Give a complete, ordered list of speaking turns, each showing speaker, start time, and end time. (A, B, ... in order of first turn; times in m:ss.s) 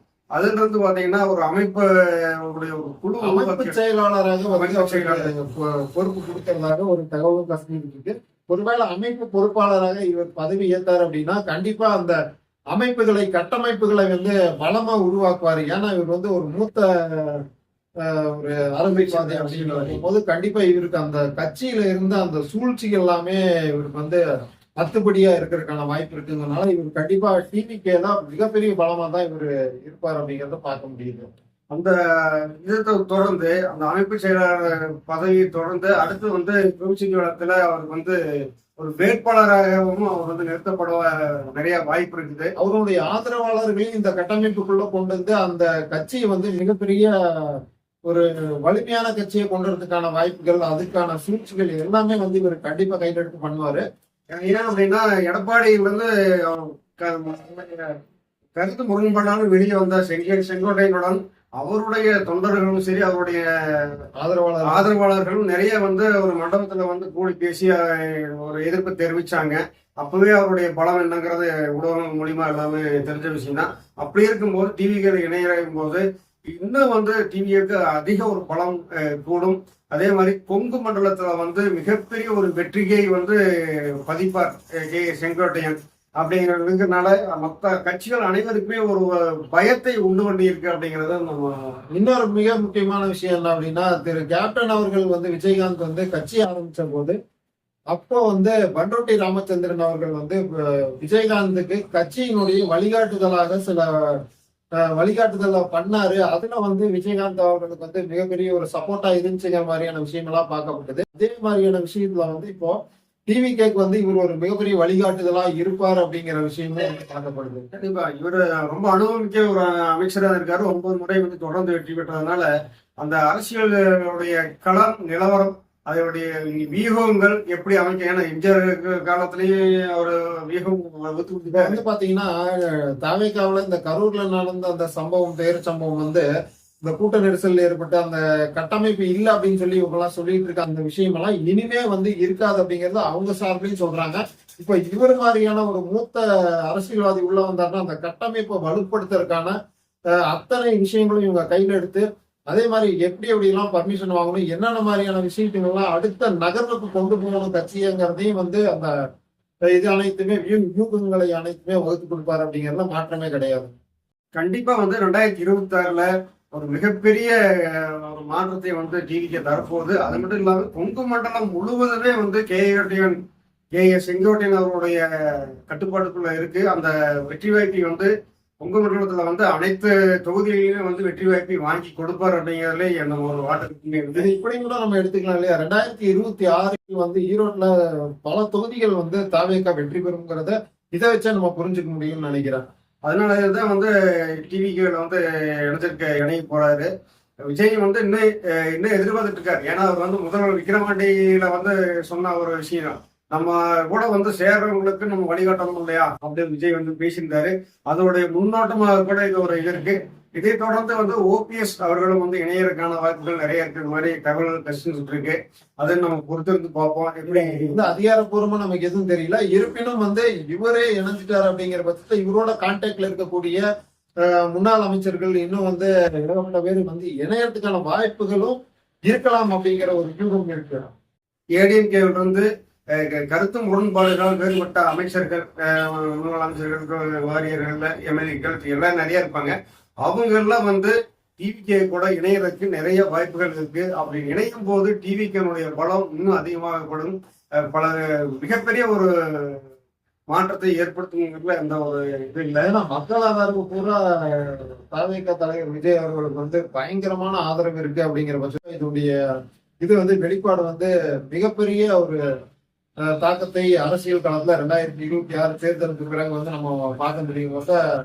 0:00.3-0:03.8 A
0:03.2-0:12.2 B
0:04.5-0:05.3 A
0:12.7-0:17.4 B
0:18.0-0:24.2 B
0:18.8-0:20.0 A
0:24.8-0:31.3 B
0:31.7-0:38.2 A
0:38.8-0:42.5 A
0:42.6-0:53.8 B
0:54.3-0:58.0 A
0:58.6-1:04.0 A
1:04.2-1:04.9 B
1:04.6-1:31.8 A
1:31.9-1:37.2 B
1:37.9-1:44.2 B
1:44.9-1:57.7 B
1:57.7-2:02.5 A
2:03.0-2:11.8 A
2:11.5-2:16.3 B
2:16.8-2:29.5 B
2:30.2-2:38.9 B
2:39.6-2:43.7 B
2:44.3-2:53.2 A
2:53.7-2:58.1 A
2:58.6-3:04.3 A
3:04.1-3:12.6 B
3:13.0-3:16.9 A
3:17.5-3:37.9 A
3:37.3-3:43.6 B
3:44.2-3:50.9 B
3:51.5-4:09.6 A
4:10.3-4:12.7 A
4:12.6-4:19.1 B
4:19.8-4:22.2 B
4:23.0-4:27.8 B